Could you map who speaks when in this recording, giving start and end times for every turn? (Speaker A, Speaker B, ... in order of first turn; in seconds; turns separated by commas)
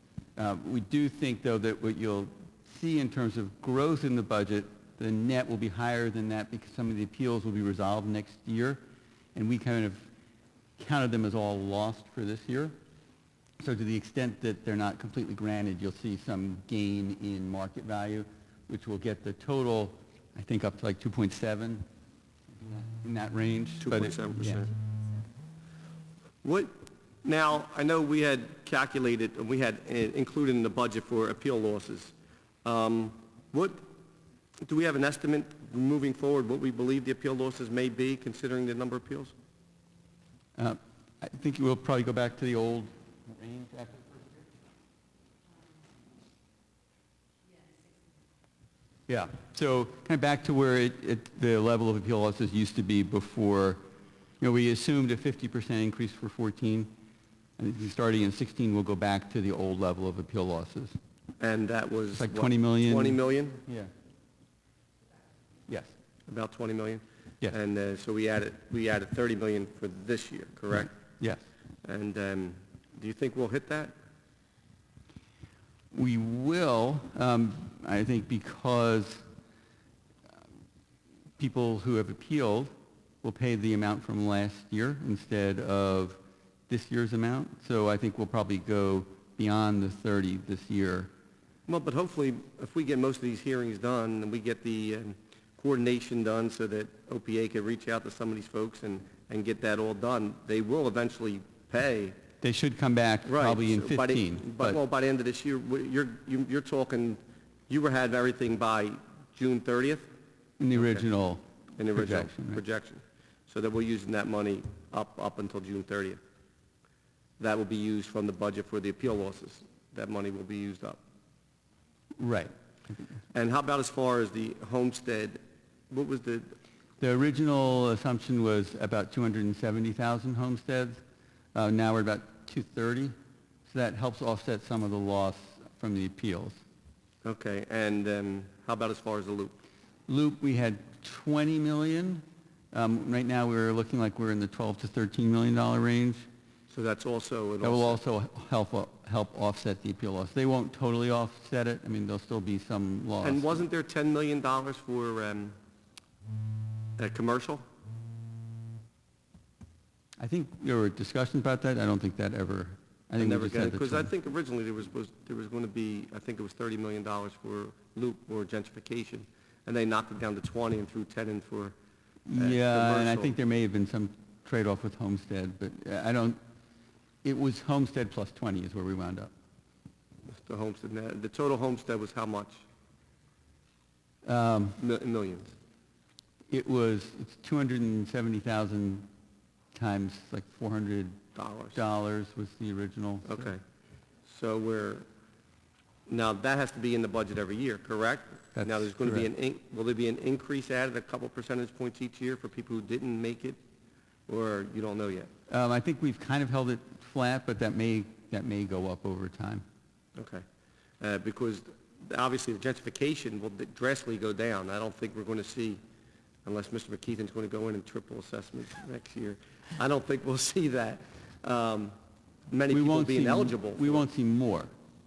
Speaker A: 0.3-8.8, Speaker A: 9.3-10.1, Speaker A: 10.8-12.8, Speaker A: 13.6-21.9, Speaker A: 22.6-24.6, Speaker B: 23.8-24.7, Speaker B: 26.4-26.7, Speaker B: 27.2-32.1, Speaker B: 32.6-33.9, Speaker B: 34.6-39.3, Speaker A: 40.6-44.2, Speaker A: 49.1-53.8, Speaker A: 54.4-56.9, Speaker A: 57.6-61.0, Speaker B: 61.4-63.6, Speaker A: 62.2-63.9, Speaker B: 66.3-70.9, Speaker A: 70.8-71.4, Speaker B: 71.8-73.9, Speaker A: 75.9-79.2, Speaker A: 81.4-82.7, Speaker A: 83.2-91.1, Speaker B: 91.7-102.2, Speaker A: 102.4-104.8, Speaker B: 103.2-110.1, Speaker A: 110.6-112.6, Speaker B: 110.7-111.0, Speaker B: 111.8-116.2, Speaker B: 117.4-121.0, Speaker A: 122.2-122.5, Speaker B: 123.3-126.5, Speaker A: 127.0-131.0, Speaker A: 131.5-133.1, Speaker A: 133.7-136.6, Speaker B: 137.2-139.6, Speaker A: 140.1-146.2, Speaker B: 146.7-148.0, Speaker A: 147.6-153.6, Speaker B: 153.2-155.6, Speaker B: 157.0-157.6, Speaker A: 160.2-164.1, Speaker B: 163.2-171.7, Speaker A: 172.3-176.4, Speaker B: 172.3-173.3, Speaker A: 177.2-179.3, Speaker B: 180.3-182.6, Speaker A: 184.2-184.8, Speaker B: 184.8-185.5, Speaker A: 186.5-189.1, Speaker A: 189.7-191.2, Speaker B: 191.3-191.8, Speaker A: 191.7-193.5, Speaker B: 193.2-193.6, Speaker B: 194.2-195.0, Speaker B: 196.1-203.6, Speaker A: 198.5-199.2, Speaker B: 204.3-205.3, Speaker A: 205.5-209.6, Speaker B: 210.2-210.4, Speaker B: 211.0-215.8, Speaker B: 216.4-221.9, Speaker B: 222.5-224.1, Speaker A: 222.7-224.7